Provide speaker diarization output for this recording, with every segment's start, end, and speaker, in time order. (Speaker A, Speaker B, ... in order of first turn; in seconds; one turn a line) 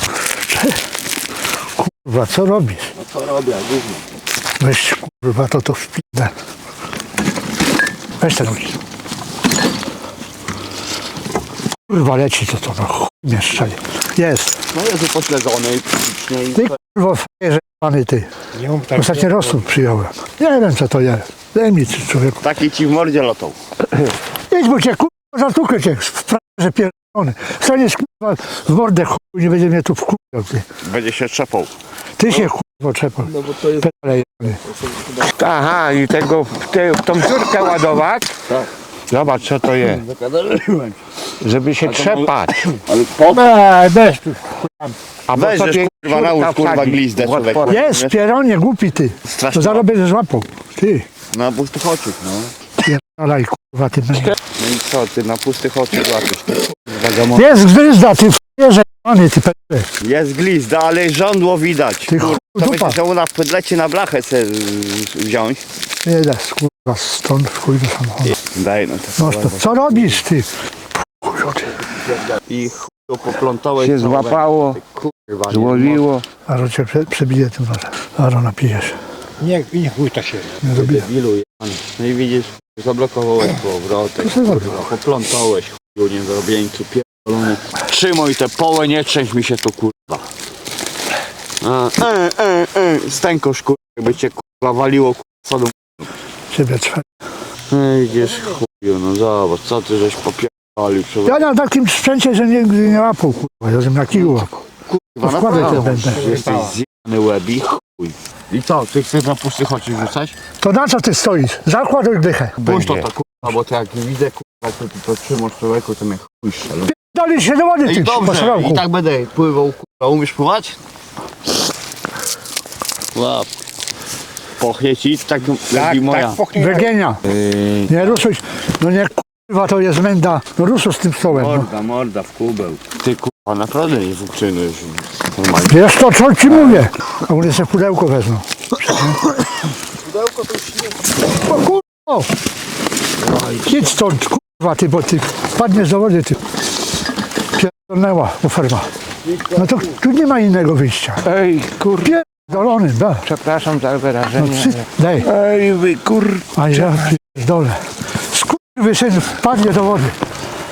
Speaker A: 0.3-0.8
Speaker A: 1.7-2.9
Speaker B: 3.0-4.0
Speaker A: 4.6-6.3
Speaker A: 8.2-8.8
Speaker A: 11.9-14.6
Speaker B: 14.7-16.8
Speaker A: 16.6-22.4
Speaker B: 22.4-23.5
Speaker A: 24.5-30.6
Speaker B: 30.8-31.7
Speaker A: 32.2-34.6
Speaker B: 33.5-33.8
Speaker C: 35.3-38.4
Speaker C: 39.1-40.0
Speaker B: 39.8-41.0
Speaker C: 41.4-42.8
Speaker B: 41.8-43.5
Speaker A: 43.4-44.4
Speaker C: 45.3-47.8
Speaker B: 45.3-48.2
Speaker A: 47.6-51.0
Speaker B: 49.2-49.9
Speaker B: 51.3-52.5
Speaker A: 52.8-54.4
Speaker B: 54.6-57.6
Speaker A: 57.3-59.9
Speaker B: 60.0-65.6
Speaker A: 62.1-63.0
Speaker A: 66.0-68.3
Speaker B: 68.2-70.2
Speaker A: 69.2-71.8
Speaker B: 72.3-76.1
Speaker C: 73.8-74.8
Speaker C: 75.5-76.2
Speaker A: 76.5-81.0
Speaker B: 80.6-90.2
Speaker A: 84.2-84.6
Speaker B: 91.6-96.0
Speaker A: 96.5-97.0
Speaker B: 97.7-101.4
Speaker A: 101.2-104.6
Speaker B: 104.1-110.3
Speaker A: 105.2-106.2
Speaker C: 105.5-105.8
Speaker A: 110.6-112.6
Speaker B: 112.6-116.9
Speaker C: 112.6-113.0
Speaker A: 116.8-118.8
Speaker B: 117.8-120.8
Speaker B: 123.1-123.5
Speaker B: 124.6-126.5
Speaker A: 126.5-127.2
Speaker B: 127.2-128.2
Speaker A: 127.9-131.7
Speaker B: 131.2-135.9
Speaker A: 135.7-138.5
Speaker B: 136.4-136.8
Speaker B: 140.3-140.6
Speaker A: 141.4-142.3
Speaker A: 143.5-146.4
Speaker A: 147.5-148.9
Speaker B: 149.5-149.8
Speaker A: 149.5-151.2
Speaker C: 151.2-152.2
Speaker A: 152.0-153.2
Speaker C: 153.2-157.1
Speaker A: 154.3-155.3
Speaker A: 156.5-160.2